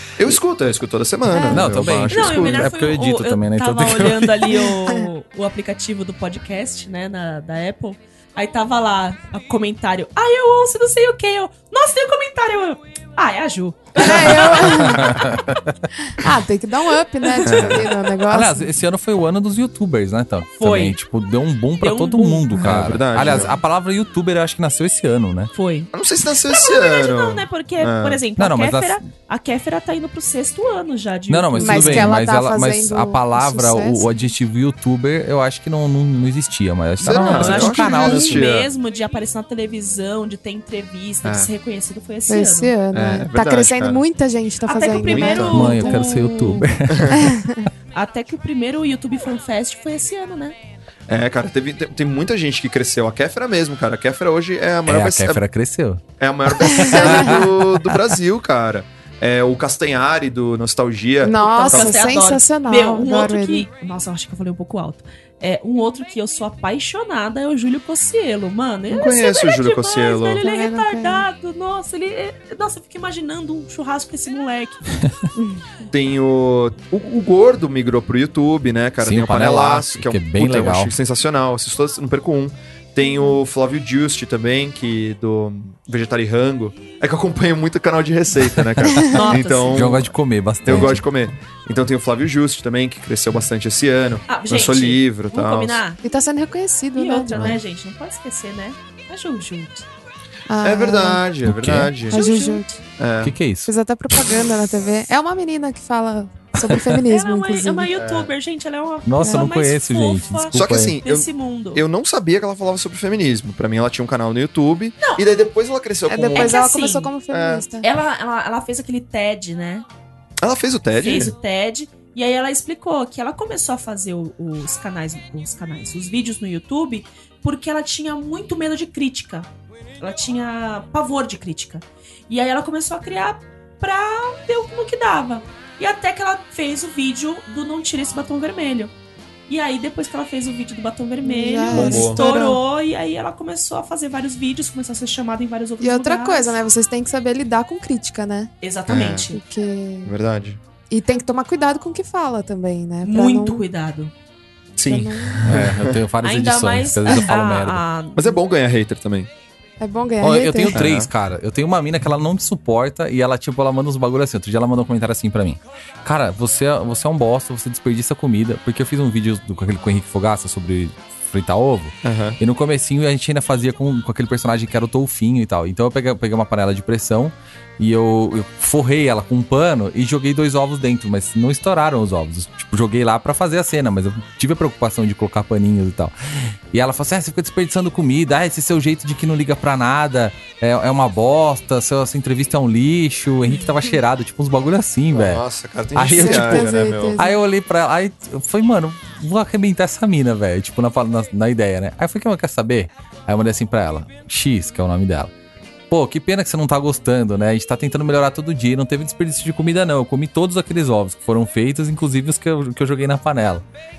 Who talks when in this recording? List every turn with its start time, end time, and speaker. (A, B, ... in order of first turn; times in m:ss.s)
0:00.2-0:02.7 A
0:01.3-0:01.8 B
0:01.5-0:04.7 C
0:02.1-0:15.0 D
0:14.0-0:15.2 B
0:14.2-0:15.7 C
0:16.1-0:18.7 B
0:17.2-0:17.9 D
0:17.4-0:17.8 A
0:18.2-0:25.5 C
0:20.6-0:21.0 D
0:21.8-0:22.6 D
0:22.5-0:23.6 A
0:25.5-0:25.9 D
0:25.9-0:28.2 A
0:26.4-0:32.1 D
0:28.4-0:29.0 C
0:31.3-0:38.4 C
0:31.6-0:34.1 B
0:37.0-0:38.7 A
0:37.1-0:42.7 D
0:41.2-0:41.5 A
0:42.3-0:46.1 B
0:42.9-0:44.0 A
0:44.6-0:46.7 D
0:45.0-0:45.7 A
0:45.5-0:47.4 C
0:46.9-0:47.3 A
0:47.1-0:47.7 B
0:47.9-0:50.6 D
0:51.1-0:55.4 A
0:54.9-0:58.0 C
0:56.2-1:02.0 A
0:56.8-0:57.4 B
1:01.2-1:03.7 B
1:01.5-1:14.9 D
1:08.9-1:10.4 A
1:10.4-1:11.3 B
1:15.4-1:15.6 B
1:15.9-1:35.8 A
1:19.0-1:20.9 C
1:23.0-1:23.4 B
1:29.0-1:29.2 B
1:29.1-1:30.0 D
1:29.7-1:31.0 C
1:34.3-1:36.0 D
1:36.0-1:37.6 B
1:36.9-1:39.8 D
1:37.3-1:37.6 A
1:40.5-1:41.2 B
1:40.6-1:42.2 A
1:41.4-1:41.9 C
1:42.1-1:42.8 B
1:42.1-1:42.6 D
1:43.0-1:43.4 A
1:43.2-1:43.7 C
1:43.6-1:47.9 B
1:46.6-1:47.0 C
1:47.0-1:51.8 D
1:47.9-1:48.3 A
1:49.0-1:51.0 C
1:49.2-1:49.5 B
1:50.5-1:56.6 A
1:56.1-1:57.9 B
1:56.3-1:57.1 D
1:57.3-1:57.6 A
1:57.8-1:59.8 D
2:00.4-2:01.3 A
2:01.0-2:18.9 D
2:19.5-2:26.6 D
2:21.2-2:22.6 B
2:21.7-2:22.2 A
2:25.8-2:28.5 B
2:28.6-2:29.4 D
2:28.9-2:29.3 A
2:29.3-2:30.1 B
2:30.0-2:30.6 A
2:30.9-2:33.6 B
2:33.0-2:34.1 D
2:34.8-2:36.0 A
2:34.9-2:35.6 B
2:35.4-2:37.8 C
2:36.2-2:38.4 D
2:38.2-2:39.3 A
2:39.8-2:40.8 B
2:40.2-3:15.4 C
2:40.7-2:41.1 A
2:52.0-2:52.4 A
3:13.6-3:13.9 B
3:15.1-3:17.2 A
3:15.9-3:25.3 C
3:16.1-3:17.3 B
3:25.9-3:33.6 C